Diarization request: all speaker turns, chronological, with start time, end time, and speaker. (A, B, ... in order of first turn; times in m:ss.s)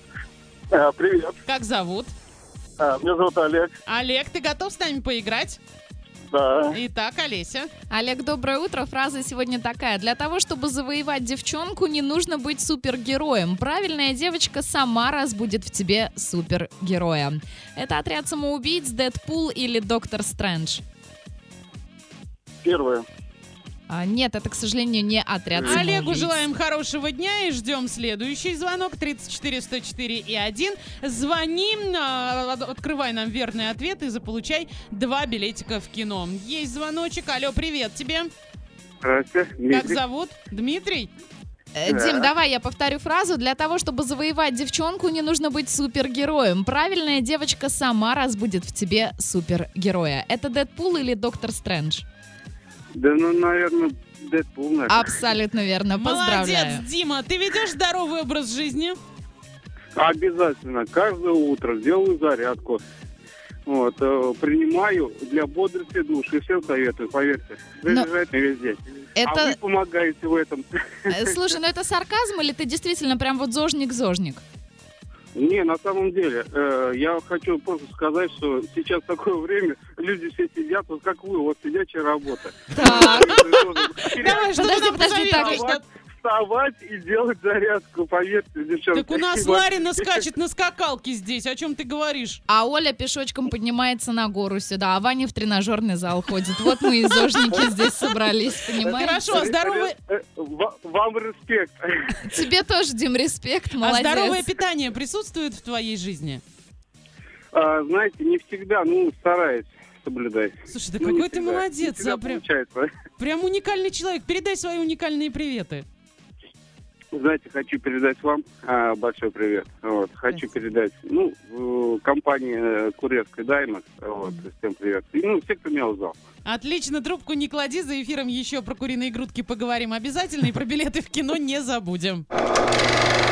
0:00.7-0:01.3 A
0:01.5-0:02.1 B
0:02.8-0:03.7 A
0:03.9-0:05.6 B
0:06.3-0:06.7 A
0:06.7-0:07.7 B
0:07.9-0:20.8 C
0:22.6-0:23.0 A
0:23.9-0:26.3 C
0:25.6-0:26.0 A
0:25.6-0:38.3 B
0:39.0-0:40.0 A
0:39.7-0:41.1 B
0:41.8-0:52.0 C
0:41.9-0:42.3 A
0:53.0-0:55.1 A
0:54.9-0:56.9 C
0:56.0-0:59.0 B
1:00.0-1:02.8 A
1:03.7-1:11.3 A
1:09.2-1:09.6 C
1:11.1-1:14.4 C
1:15.4-1:30.2 A
1:22.7-1:23.5 C
1:22.8-1:25.8 B
1:24.2-1:25.8 C
1:28.9-1:32.4 B
1:32.5-1:39.4 C
1:37.4-1:37.7 B
1:38.8-1:40.0 B
1:39.3-1:42.1 A
1:42.2-1:44.5 C
1:43.8-1:46.4 B
1:47.5-1:52.9 A
1:50.7-1:52.4 B
1:53.2-1:55.8 B
1:57.1-2:06.2 A
2:06.4-2:12.2 B